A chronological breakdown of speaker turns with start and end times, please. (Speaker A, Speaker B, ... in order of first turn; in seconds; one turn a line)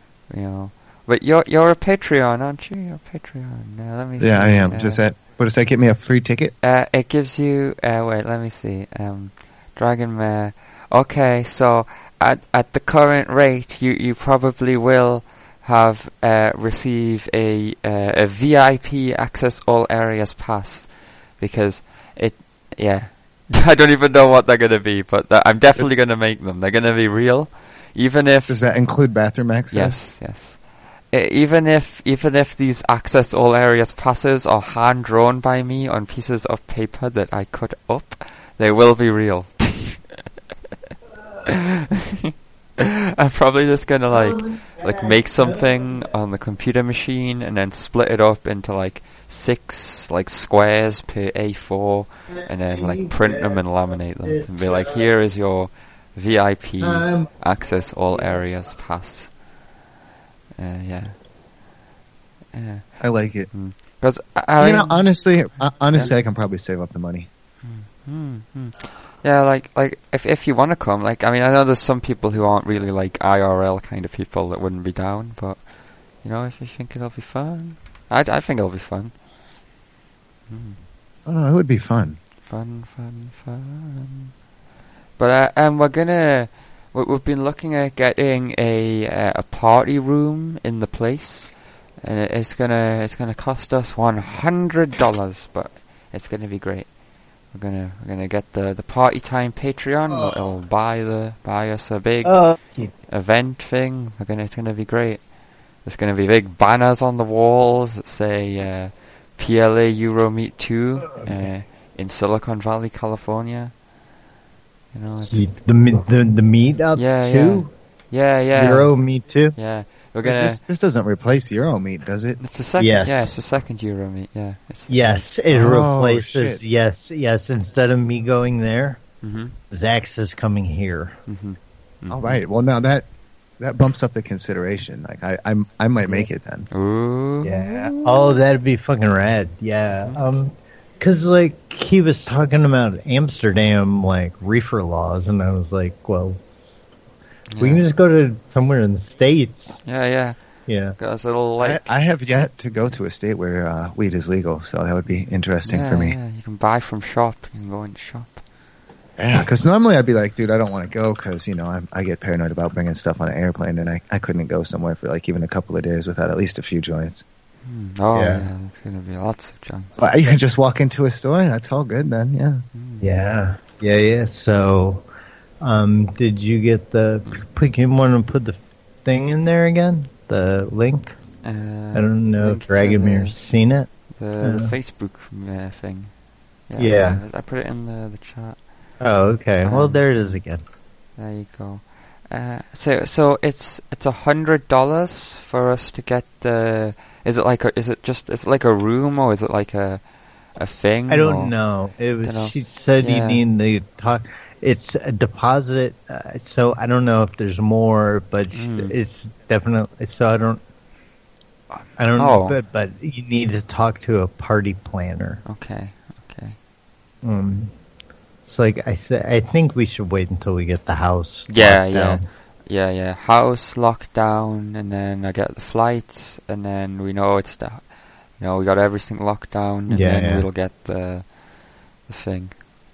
Speaker A: 0.3-5.0
Speaker B: 4.2-6.5
Speaker A: 6.6-28.6
Speaker B: 28.5-30.0
Speaker A: 29.7-40.0
Speaker A: 41.5-59.3
Speaker C: 44.1-46.1
Speaker C: 52.3-53.6
Speaker C: 54.2-55.0
Speaker C: 56.8-57.3
Speaker A: 60.5-61.1
Speaker A: 62.5-63.0
Speaker B: 63.0-63.5
Speaker A: 63.5-65.1
Speaker B: 64.6-67.3
Speaker A: 67.6-75.6
Speaker A: 76.2-79.1
Speaker A: 80.5-80.8
Speaker B: 81.2-82.2
Speaker A: 82.4-84.3
Speaker A: 85.2-96.9
Speaker A: 97.5-102.4
Speaker C: 102.2-102.9
Speaker A: 103.1-105.2
Speaker A: 105.8-113.7
Speaker A: 114.9-115.5
Speaker C: 115.3-117.7
Speaker A: 117.0-118.9
Speaker C: 118.5-119.5
Speaker A: 119.5-120.6
Speaker B: 120.2-122.4
Speaker A: 122.4-125.2
Speaker C: 122.8-123.4
Speaker C: 124.9-129.0
Speaker B: 125.5-126.6
Speaker A: 129.2-129.5
Speaker C: 129.7-131.2
Speaker A: 131.3-132.4
Speaker B: 132.1-133.1
Speaker B: 133.6-136.7
Speaker A: 136.7-138.2
Speaker C: 137.4-146.4
Speaker A: 147.5-147.8
Speaker C: 147.6-149.7
Speaker A: 149.8-150.4
Speaker C: 150.7-150.9
Speaker A: 151.0-151.9
Speaker B: 151.6-156.2
Speaker A: 155.6-158.4
Speaker B: 159.2-167.2
Speaker A: 167.6-170.2
Speaker C: 168.1-168.5
Speaker B: 170.0-172.6
Speaker A: 172.7-173.1
Speaker C: 173.0-175.1
Speaker C: 175.6-181.1
Speaker A: 181.4-183.3
Speaker C: 181.9-183.9
Speaker A: 184.1-186.1
Speaker C: 184.4-184.7
Speaker A: 186.7-188.6
Speaker C: 186.8-187.2
Speaker C: 189.0-190.6
Speaker A: 189.6-190.4
Speaker A: 191.2-200.0
Speaker A: 200.6-201.5
Speaker C: 201.1-210.6
Speaker A: 202.2-203.4
Speaker A: 208.5-208.9
Speaker A: 211.7-212.6
Speaker C: 212.0-215.4
Speaker A: 215.4-216.6
Speaker C: 217.2-217.7
Speaker C: 218.4-222.2
Speaker A: 221.5-231.3
Speaker C: 229.9-230.5
Speaker A: 232.1-232.5